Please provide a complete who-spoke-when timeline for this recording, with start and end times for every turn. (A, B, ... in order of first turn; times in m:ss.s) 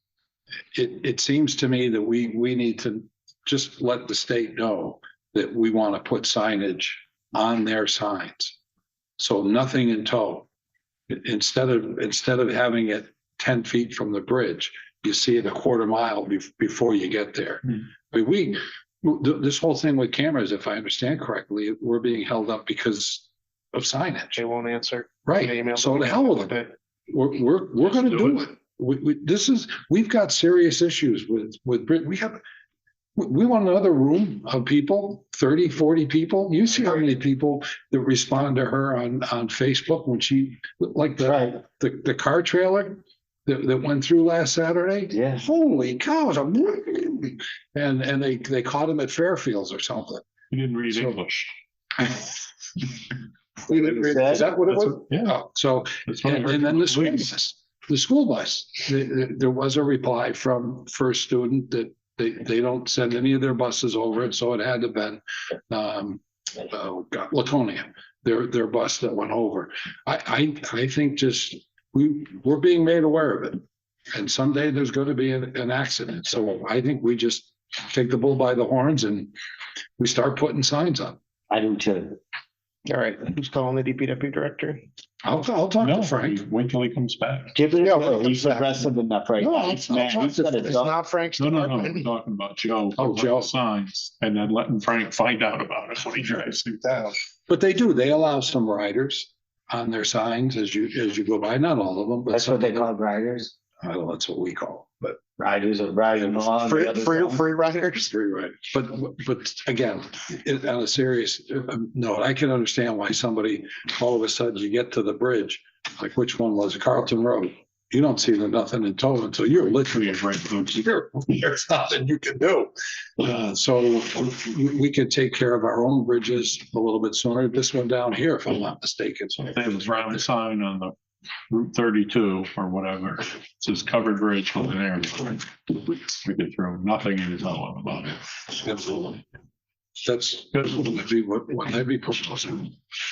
0:00.7-0:08.5 A
0:09.2-0:10.5 A
0:11.1-0:24.4 A
0:24.3-0:26.7 B
0:25.2-0:26.6 A
0:27.1-0:32.4 A
0:33.2-0:50.2 A
0:41.2-0:41.6 C
0:45.1-0:45.5 C
0:50.5-0:51.5 D
0:50.9-0:51.2 A
0:52.0-0:52.3 A
0:53.7-0:54.5 C
0:53.7-1:19.3 A
0:54.7-0:55.4 D
0:56.0-0:57.3 D
1:20.0-1:21.2 A
1:21.5-1:22.2 C
1:22.8-1:24.8 B
1:25.2-1:26.4 A
1:25.8-1:27.5 D
1:27.5-1:30.9 C
1:27.8-1:28.7 B
1:29.4-1:32.1 B
1:31.4-1:37.2 D
1:33.0-1:33.5 A
1:37.5-1:42.8 A
1:42.3-1:43.5 C
1:43.8-1:45.2 A
1:45.4-1:47.4 C
1:46.2-1:46.4 A
1:46.6-1:48.1 B
1:48.1-2:10.3 A
1:59.8-2:00.8 D
2:09.3-2:10.9 D
2:11.5-2:18.2 D
2:18.6-2:19.2 A
2:20.0-2:22.8 A